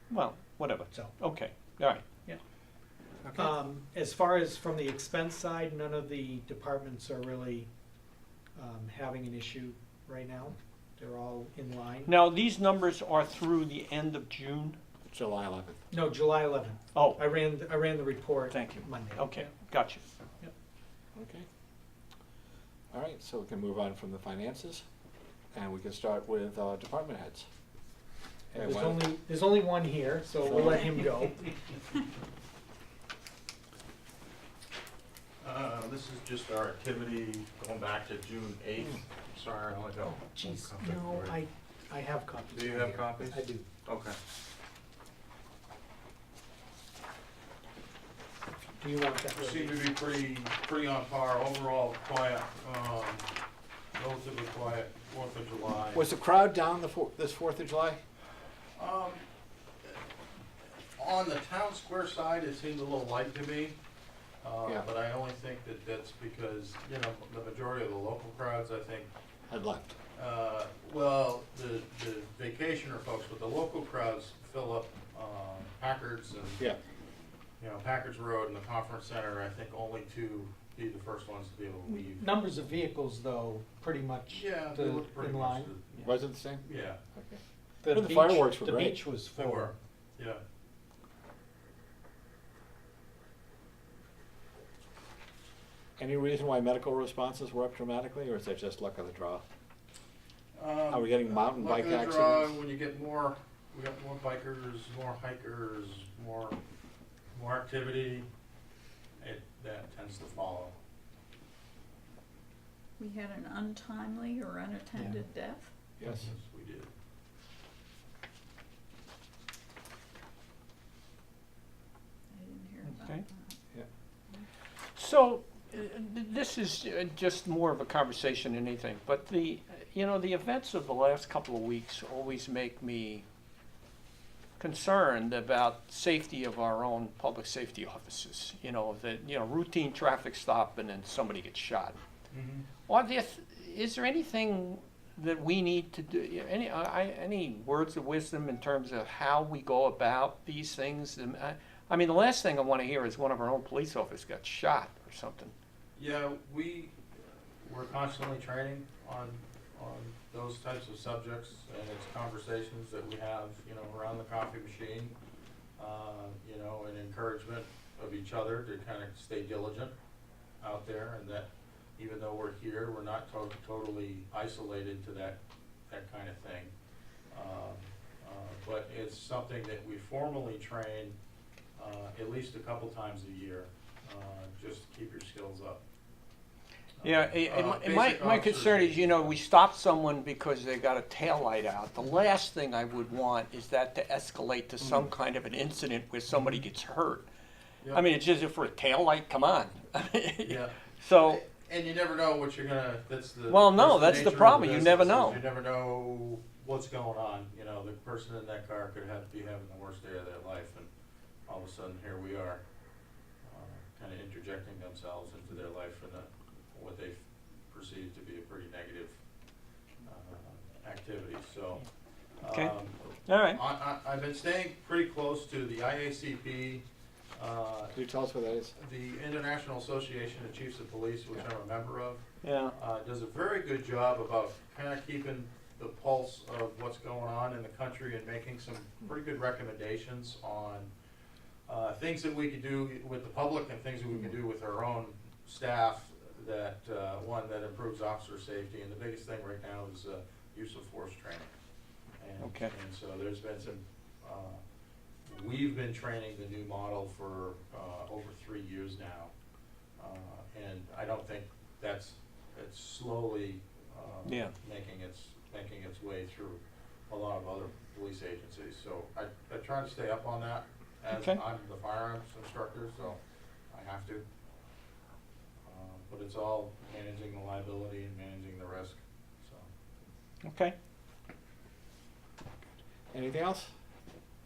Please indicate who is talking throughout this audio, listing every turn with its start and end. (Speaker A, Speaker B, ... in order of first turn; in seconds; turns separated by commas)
Speaker A: 0.1-2.0, Speaker A: 3.2-3.5, Speaker B: 3.3-7.7, Speaker B: 8.6-12.1, Speaker A: 12.1-14.8, Speaker C: 15.1-15.8, Speaker B: 15.9-19.5, Speaker A: 16.9-17.2, Speaker A: 18.5-20.0, Speaker C: 21.1-21.4, Speaker C: 22.9-24.8, Speaker C: 25.5-27.5, Speaker C: 28.5-29.1, Speaker B: 28.6-31.5, Speaker C: 30.4-30.9, Speaker D: 35.4-41.4, Speaker B: 40.0-43.7, Speaker D: 42.5-44.2, Speaker B: 48.8-49.7, Speaker D: 49.3-53.3, Speaker D: 54.0-56.0, Speaker C: 55.9-58.0, Speaker D: 58.8-59.2, Speaker D: 61.0-63.8, Speaker D: 64.4-69.1, Speaker C: 69.5-69.9, Speaker D: 70.1-76.6, Speaker D: 77.6-82.3, Speaker B: 81.8-85.7, Speaker D: 84.3-87.0, Speaker C: 86.0-89.0, Speaker B: 87.8-89.7, Speaker D: 89.3-90.4, Speaker C: 96.0-99.4, Speaker D: 100.5-106.6, Speaker C: 100.9-102.6, Speaker D: 107.3-108.3, Speaker D: 109.2-110.7, Speaker E: 113.0-115.7, Speaker C: 116.0-116.3, Speaker D: 116.1-116.9, Speaker E: 122.3-123.6, Speaker A: 122.8-123.2, Speaker A: 125.0-133.2, Speaker A: 134.6-142.0, Speaker D: 142.3-142.7, Speaker A: 142.9-155.5, Speaker D: 155.9-157.0, Speaker D: 157.6-165.1, Speaker D: 165.8-169.9, Speaker D: 170.6-176.7, Speaker D: 177.3-181.2, Speaker D: 181.8-185.8, Speaker D: 187.0-189.3, Speaker A: 187.0-197.2, Speaker C: 194.8-195.1, Speaker D: 196.3-196.6, Speaker A: 197.9-201.4, Speaker D: 200.4-210.9, Speaker A: 203.5-205.4, Speaker D: 211.4-212.6, Speaker D: 213.4-219.2, Speaker D: 220.0-221.8, Speaker D: 222.4-227.9, Speaker A: 222.5-223.6, Speaker C: 227.9-228.7, Speaker D: 228.8-232.2, Speaker A: 232.4-232.7, Speaker D: 232.7-240.9, Speaker D: 241.7-251.5, Speaker D: 252.2-254.6, Speaker A: 252.4-252.7, Speaker D: 255.2-259.3, Speaker D: 260.0-273.2, Speaker A: 264.2-264.5, Speaker A: 271.1-271.4, Speaker D: 273.7-274.2, Speaker D: 275.6-279.7, Speaker A: 280.4-280.7, Speaker C: 283.1-283.7